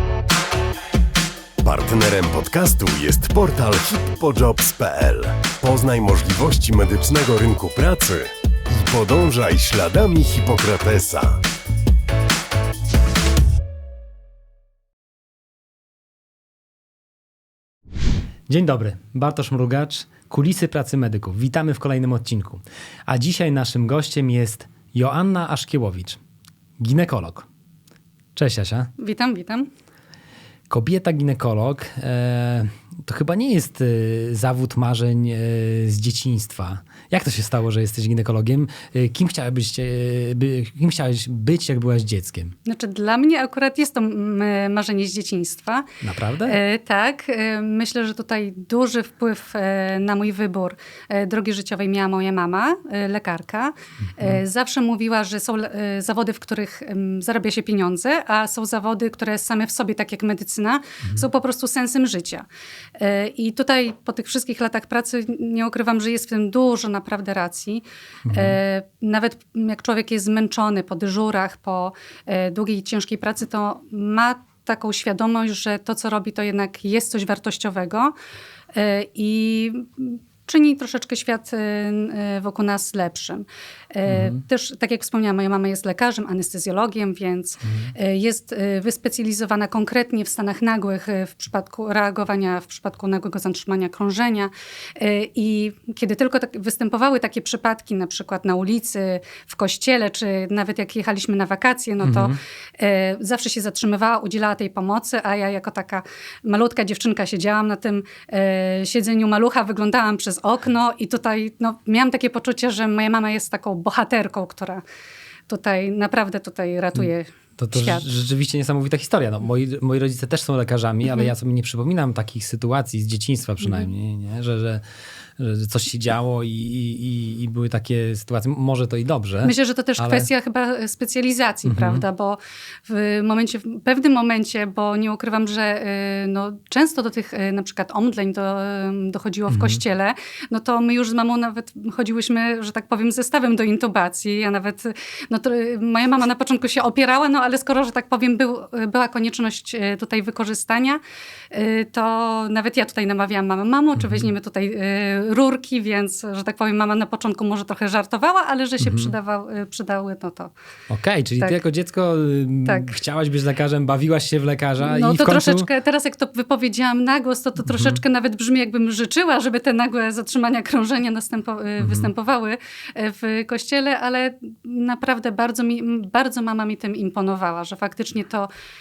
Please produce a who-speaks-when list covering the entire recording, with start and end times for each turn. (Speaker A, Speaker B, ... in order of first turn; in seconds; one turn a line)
Speaker A: 1.6-11.4
Speaker B: 18.5-26.2
Speaker B: 26.8-27.5
Speaker B: 28.4-28.9
Speaker C: 29.0-29.7
Speaker B: 30.7-42.5
Speaker C: 42.6-45.9
Speaker B: 46.0-46.6
Speaker C: 46.5-62.5
Speaker B: 54.0-54.4
Speaker C: 63.0-78.1
Speaker B: 68.3-68.6
Speaker C: 78.7-114.8
Speaker B: 84.1-84.4
Speaker B: 87.7-87.9
Speaker B: 102.0-102.4
Speaker C: 115.5-118.0
Speaker B: 117.6-124.8
Speaker B: 125.4-130.3
Speaker C: 129.4-151.0
Speaker B: 131.7-132.0
Speaker B: 139.5-139.8
Speaker C: 151.5-160.5
Speaker B: 154.0-154.3
Speaker B: 158.8-159.1
Speaker B: 160.9-165.7
Speaker C: 162.7-163.0
Speaker C: 164.8-178.5
Speaker B: 167.7-168.0
Speaker B: 171.8-172.1